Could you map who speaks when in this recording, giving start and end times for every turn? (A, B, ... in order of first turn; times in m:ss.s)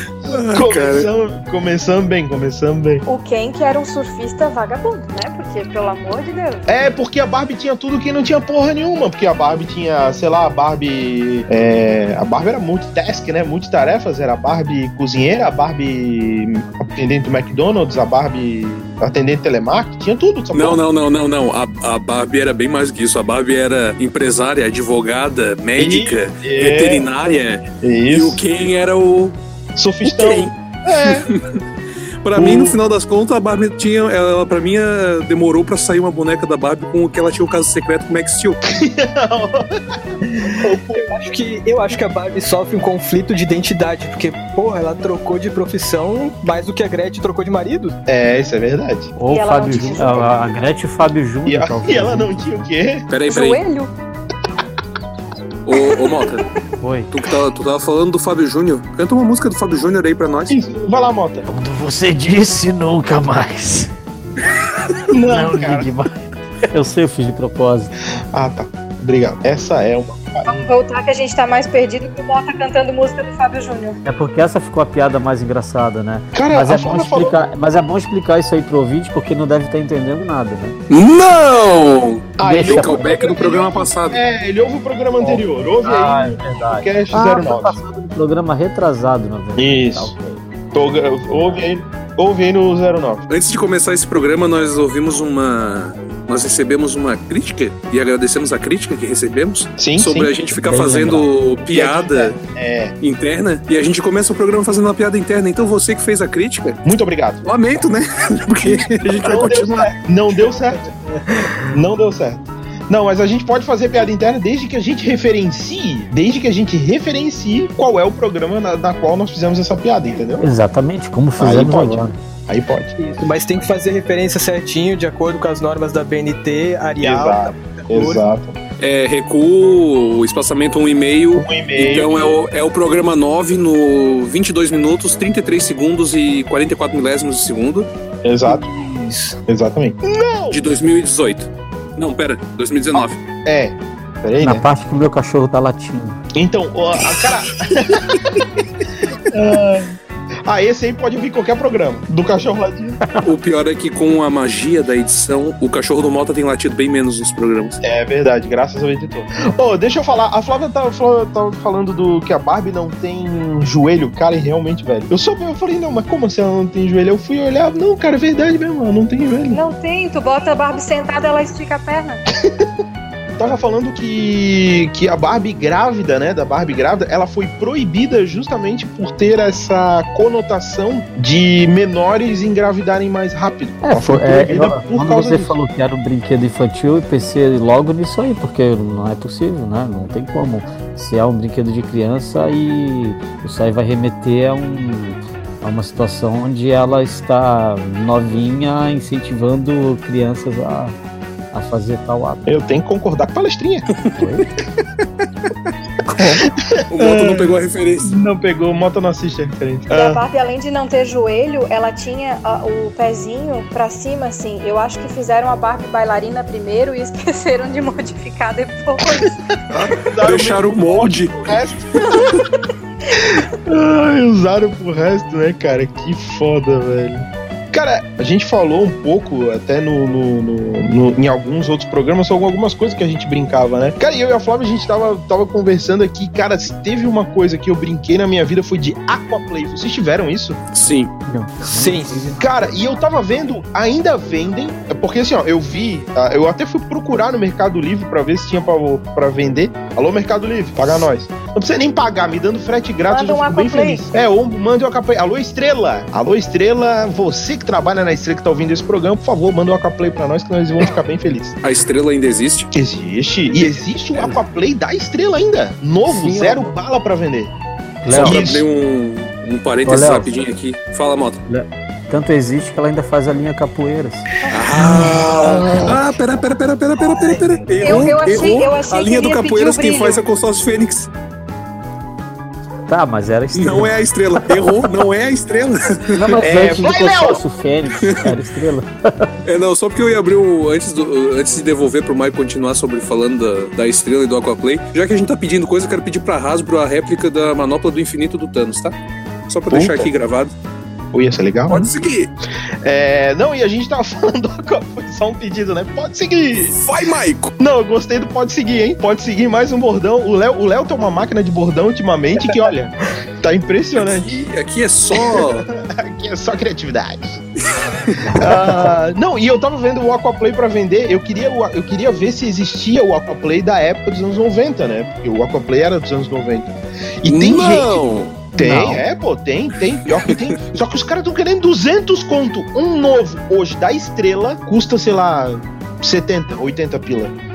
0:00.3-0:01.1 A
0:00.5-0:03.0 B
0:03.1-0:06.7 C
0:06.7-0:20.8 B
0:20.5-0:29.4 A
0:25.8-0:27.1 B
0:27.8-0:28.4 B
0:29.8-0:31.3 B
0:30.1-0:31.6 A
0:32.2-0:38.6 A
0:32.4-0:32.8 B
0:38.7-0:39.8 B
0:40.4-0:48.0 D
0:40.5-0:41.0 B
0:48.1-0:49.1 B
0:49.2-0:52.5 E
0:49.3-0:50.3 C
0:51.5-0:53.0 B
0:53.1-0:53.6 A
0:53.3-0:53.9 C
0:55.7-0:56.4 A
0:56.8-0:57.1 E
0:57.1-1:00.6 A
1:00.5-1:01.5 B
1:01.5-1:03.9 E
1:05.1-1:05.9 B
1:05.2-1:06.1 E
1:06.6-1:07.9 E
1:08.3-1:10.7 B
1:10.4-1:14.0 C
1:14.0-1:20.8 E
1:16.3-1:17.4 B
1:20.9-1:24.2 A
1:22.4-1:27.8 B
1:22.4-1:23.4 E
1:25.2-1:30.4 E
1:29.6-1:30.1 B
1:30.7-1:33.3 B
1:31.3-1:31.6 E
1:33.3-1:42.4 A
1:39.8-1:40.3 B
1:40.6-1:41.3 E
1:41.7-1:42.9 B
1:43.0-1:46.8 A
1:46.8-1:47.5 B
1:47.4-1:49.9 A
1:49.2-1:50.9 B
1:50.4-1:51.7 D
1:51.7-2:00.5 B
2:00.4-2:02.2 E
2:01.4-2:02.9 B
2:03.0-2:08.2 D
2:07.0-2:08.6 B
2:08.8-2:17.9 A
2:11.3-2:12.4 B
2:18.2-2:18.7 B
2:18.5-2:19.4 D
2:19.5-2:20.6 B
2:20.5-2:23.2 A
2:22.9-2:24.6 B
2:24.4-2:26.2 E
2:26.4-2:28.5 B
2:29.3-2:29.9 B
2:30.5-2:33.0 B
2:33.2-2:37.8 A
2:37.8-2:49.6 B
2:49.5-2:52.2 C
2:53.4-3:05.6 B
3:03.8-3:21.0 E
3:21.5-3:22.5 E
3:22.5-3:23.9 B
3:24.2-3:24.5 E
3:26.2-3:30.2 B
3:26.9-3:28.1 A
3:29.9-3:39.4 C
3:39.7-3:41.6 A
3:39.9-3:42.3 B
3:43.2-4:00.6 B
4:00.7-4:01.1 A
4:01.3-4:02.9 E
4:01.6-4:02.3 D
4:02.4-4:21.6 B
4:13.1-4:14.0 C
4:21.6-4:22.7 A
4:22.7-4:27.5 B
4:26.1-4:26.7 D
4:28.0-4:28.5 E
4:28.1-4:28.6 B
4:28.1-4:31.4 A
4:29.8-4:30.3 E
4:31.5-4:34.3 E
4:34.5-4:41.1 A
4:34.7-4:36.0 B
4:37.0-4:38.4 D
4:37.8-4:40.2 C
4:42.9-4:43.9 E
4:43.6-4:46.3 A
4:46.1-4:49.3 E
4:46.4-4:47.4 B
4:48.0-4:48.3 A
4:49.4-4:59.0 A
4:59.5-5:00.5 A
4:59.7-5:00.1 B
5:01.1-5:01.9 B
5:01.7-5:02.3 A
5:02.8-5:06.8 B
5:06.7-5:07.5 A
5:07.6-5:14.5 B
5:14.0-5:15.7 A
5:15.2-5:17.4 B
5:18.2-5:18.9 E
5:18.4-5:37.4 B
5:27.3-5:28.4 A
5:28.6-5:29.0 E